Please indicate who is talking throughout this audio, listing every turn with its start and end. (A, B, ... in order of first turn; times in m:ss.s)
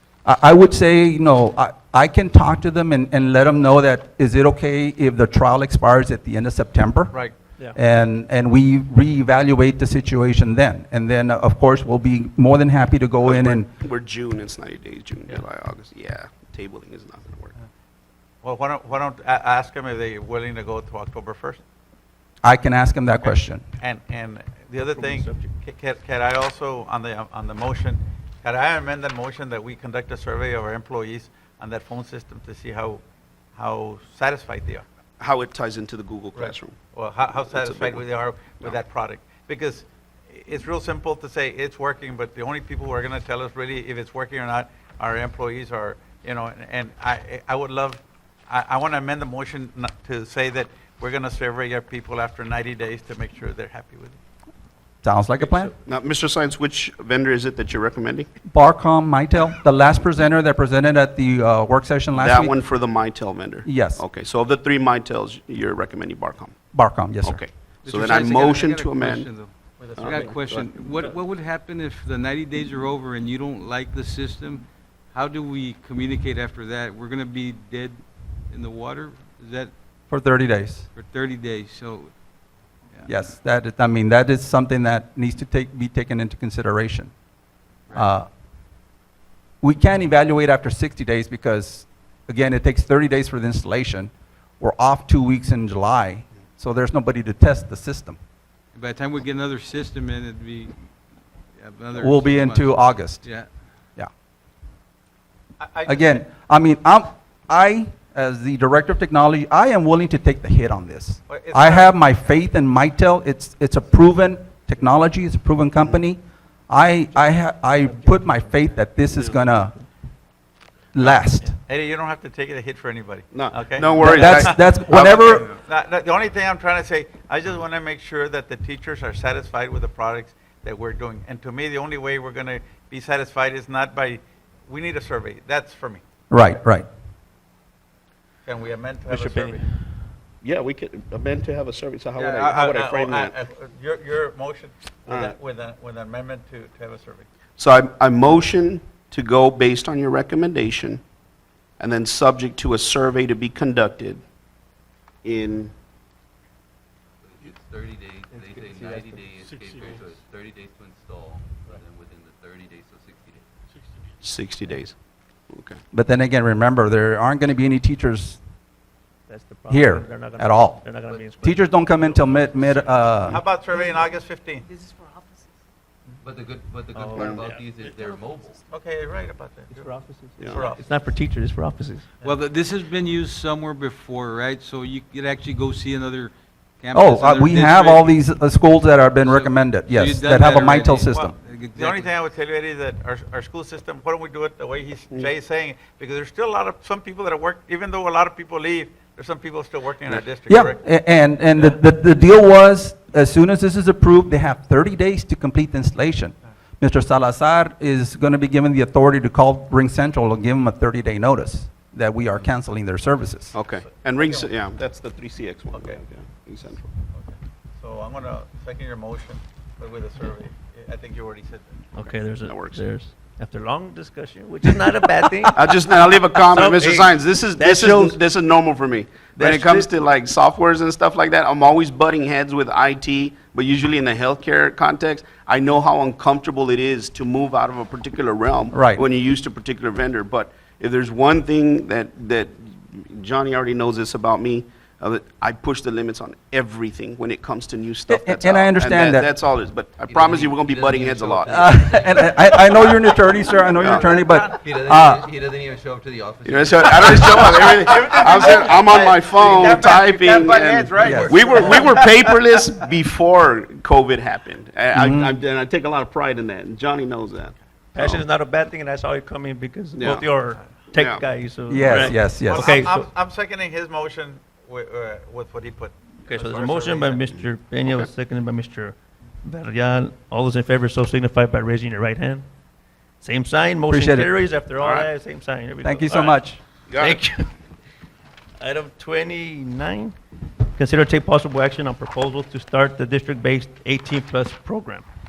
0:00.2-0:07.2 A
0:07.7-0:13.7 A
0:13.2-0:17.5 B
0:18.4-0:21.6 C
0:22.4-0:23.6 A
0:23.2-0:33.0 C
0:24.9-0:25.5 D
0:33.6-0:34.8 C
0:35.2-0:36.8 B
0:36.4-0:54.2 C
0:37.4-0:38.8 B
0:55.0-0:55.7 A
0:55.8-0:58.3 B
0:58.5-1:02.5 A
1:02.2-1:06.6 B
1:03.6-1:04.0 A
1:06.7-1:07.4 A
1:07.2-1:09.3 B
1:07.8-1:19.7 E
1:09.8-1:10.6 C
1:10.0-1:10.6 B
1:20.1-1:20.9 A
1:20.9-1:22.1 E
1:22.9-1:23.2 E
1:23.1-1:27.1 A
1:27.9-1:28.3 A
1:29.6-1:38.2 A
1:38.7-1:40.9 E
1:41.6-1:43.5 E
1:41.9-1:44.1 A
1:45.6-1:46.2 C
1:45.8-1:59.8 A
1:51.3-1:51.9 C
1:58.0-1:58.5 D
1:59.1-1:59.4 B
2:00.9-2:01.5 A
2:01.6-2:04.7 C
2:03.3-2:05.5 B
2:04.0-2:05.5 A
2:05.4-2:16.0 C
2:16.3-2:16.9 A
2:18.4-2:19.6 C
2:19.1-2:20.1 D
2:20.4-2:23.3 B
2:22.2-2:27.3 C
2:25.1-2:25.4 B
2:27.6-2:31.0 B
2:31.8-2:34.2 B
2:35.2-2:35.7 B
2:37.2-2:43.4 F
2:44.2-2:44.9 B
2:45.5-2:45.8 B
2:45.9-2:48.4 A
2:49.3-2:51.6 D
2:49.7-2:53.4 A
2:51.1-2:52.9 F
2:53.2-2:54.7 C
2:56.2-2:58.6 F
2:56.9-2:57.7 D
2:57.2-2:57.4 B
2:58.7-2:59.9 C
2:59.7-3:02.1 D
3:00.4-3:00.6 B
3:00.4-3:00.9 C
3:02.2-3:08.2 E
3:06.9-3:11.4 A
3:09.2-3:12.1 E
3:11.7-3:20.8 C
3:20.5-3:33.5 A
3:33.5-3:36.9 B
3:34.1-3:34.5 C
3:35.7-3:36.0 C
3:37.1-3:41.7 C
3:41.9-3:45.8 D
3:42.0-3:42.8 B
3:45.5-4:11.7 B
3:46.3-3:48.2 D
3:49.4-3:49.9 D
3:58.7-3:59.0 A
4:08.1-4:09.3 A
4:10.0-4:13.1 F
4:11.5-4:15.2 A
4:13.7-4:14.2 B
4:13.8-4:14.6 C
4:14.5-4:18.0 F
4:16.4-4:28.2 B
4:17.4-4:22.3 C
4:21.0-4:21.4 A
4:24.9-4:25.3 A
4:27.9-4:33.1 D
4:30.0-4:30.3 B
4:30.9-4:31.2 B
4:31.7-4:32.7 A
4:32.1-4:37.2 C
4:36.2-4:42.4 D
4:37.8-4:38.1 B
4:43.2-4:46.4 D
4:43.9-4:44.3 A
4:44.8-4:45.1 B
4:45.8-4:46.6 A
4:46.9-4:47.2 B
4:46.9-4:47.5 D
4:48.6-4:50.1 D
4:50.7-4:55.0 D